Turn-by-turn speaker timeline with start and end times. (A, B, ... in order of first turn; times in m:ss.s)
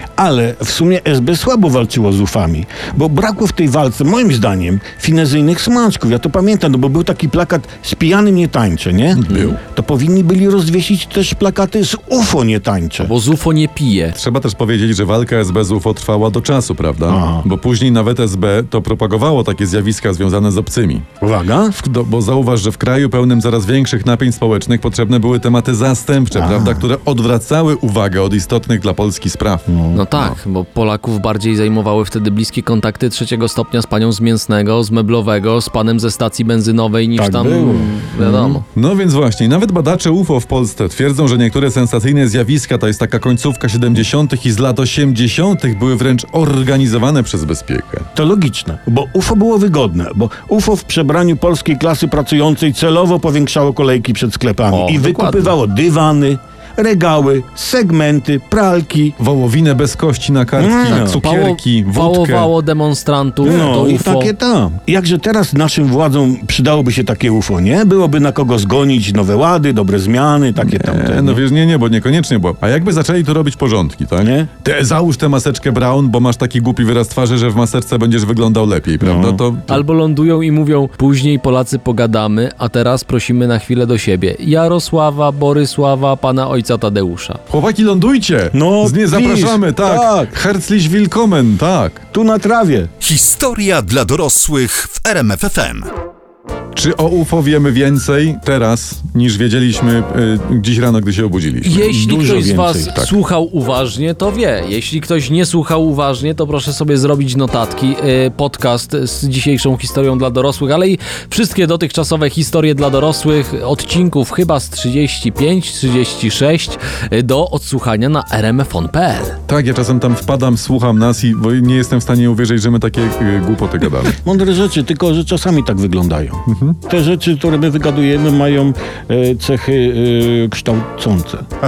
0:00.2-0:13.1 A
0:09.1-0:09.6 B
0:13.0-0:14.2 C
0:14.1-0:21.0 B
0:17.1-0:17.4 A
0:21.2-0:21.8 A
0:21.7-0:30.4 B
0:26.3-0:26.9 A
0:29.7-0:30.0 A
0:29.9-0:38.6 C
0:37.2-0:38.6 A
0:38.7-0:48.1 B
0:48.2-0:59.1 A
0:54.7-0:55.5 C
0:59.2-1:02.5 B
1:00.6-1:01.2 A
1:00.9-1:04.3 C
1:03.4-1:11.4 A
1:10.6-1:19.8 B
1:14.2-1:14.5 A
1:19.0-1:19.4 A
1:19.7-1:27.4 C
1:27.5-1:32.0 B
1:28.5-1:30.4 A
1:32.1-1:32.9 A
1:33.0-1:35.9 D
1:36.8-1:42.0 B
1:41.6-1:59.4 C
1:41.8-1:42.9 A
1:59.5-2:04.2 B
2:04.2-2:11.4 A
2:06.5-2:06.8 B